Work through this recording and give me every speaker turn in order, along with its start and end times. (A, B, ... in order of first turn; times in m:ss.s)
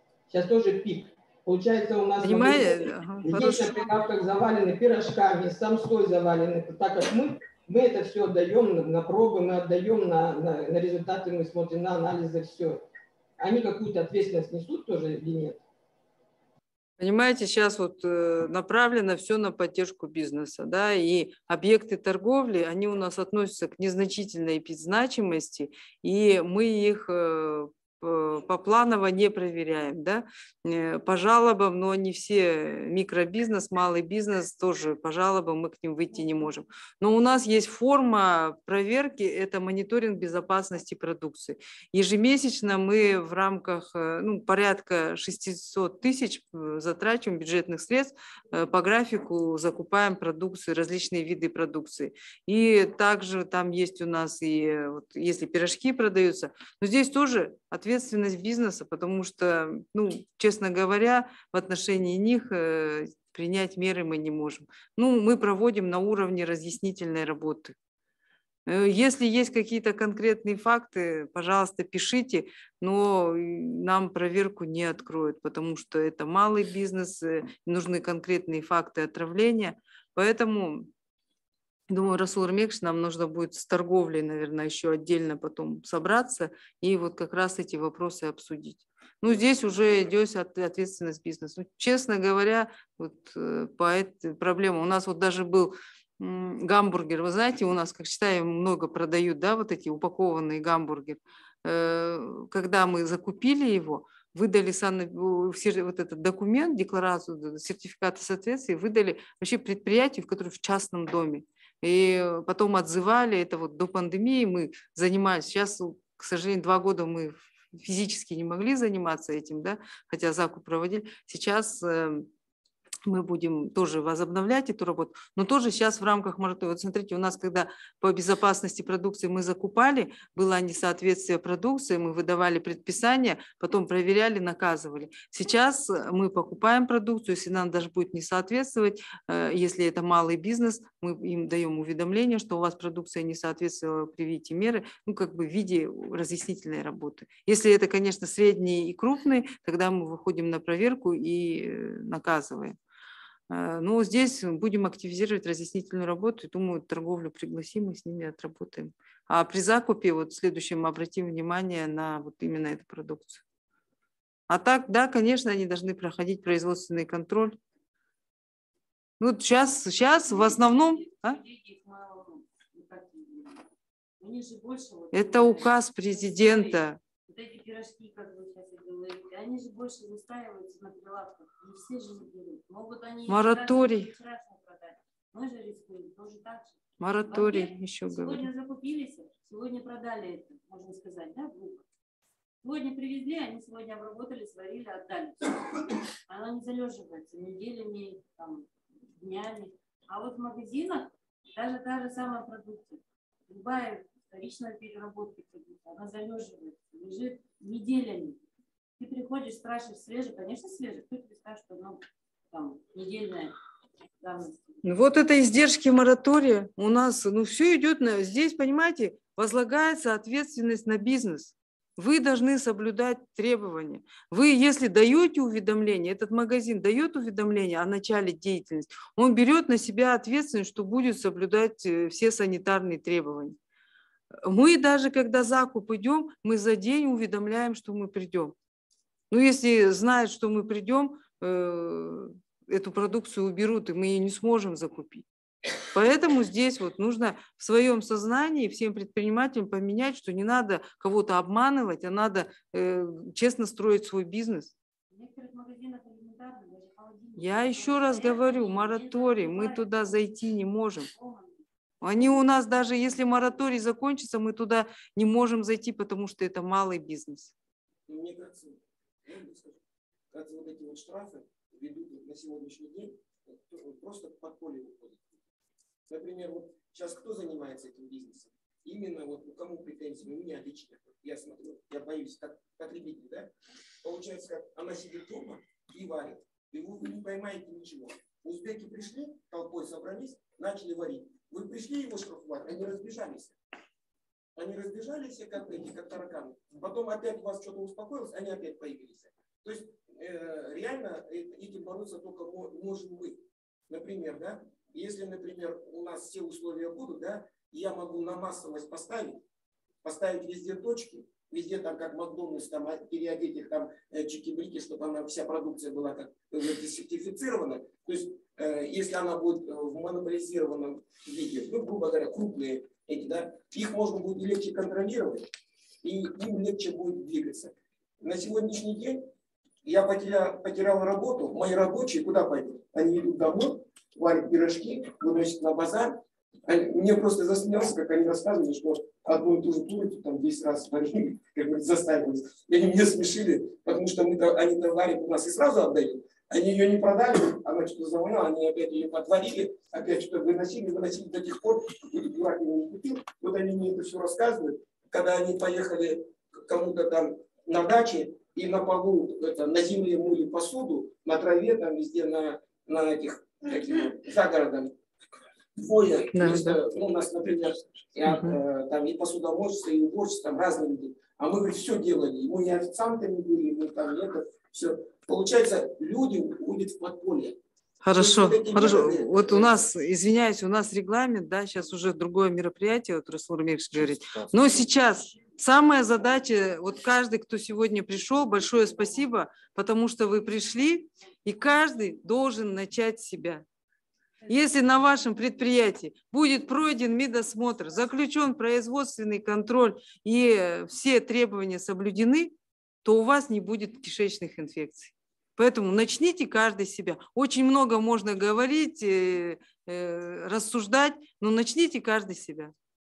0:00.3-0:12.8 A
0:02.2-0:03.9 B
0:13.4-0:15.6 A
0:17.0-1:07.8 B
1:08.7-1:20.9 B
1:21.9-2:02.3 B
2:03.0-2:32.8 B
2:33.5-2:43.4 B
2:44.5-2:47.6 B
2:49.2-2:51.4 B
2:50.2-2:53.6 C
2:54.2-3:11.8 C
2:55.1-2:57.0 B
3:03.3-3:04.1 B
3:07.0-3:08.5 B
3:12.6-3:28.4 C
3:29.0-3:33.6 C
3:34.2-3:34.7 C
3:34.8-3:53.6 B
3:54.4-3:58.6 B
3:59.3-4:05.2 B
4:05.9-4:14.7 B
4:15.1-4:20.4 C
4:17.4-4:21.1 B
4:21.1-4:21.6 C
4:22.0-4:27.5 B
4:28.1-4:29.8 D
4:30.3-4:35.4 D
4:36.1-4:43.5 D
4:44.0-4:53.6 D
4:54.6-5:09.4 D
5:10.0-5:25.5 D
5:26.0-5:29.3 D
5:29.8-6:04.9 D
6:05.8-6:17.6 D
6:06.3-6:06.8 B
6:08.3-6:08.6 B
6:18.0-6:33.6 B
6:18.1-6:19.8 D
6:34.5-6:52.7 B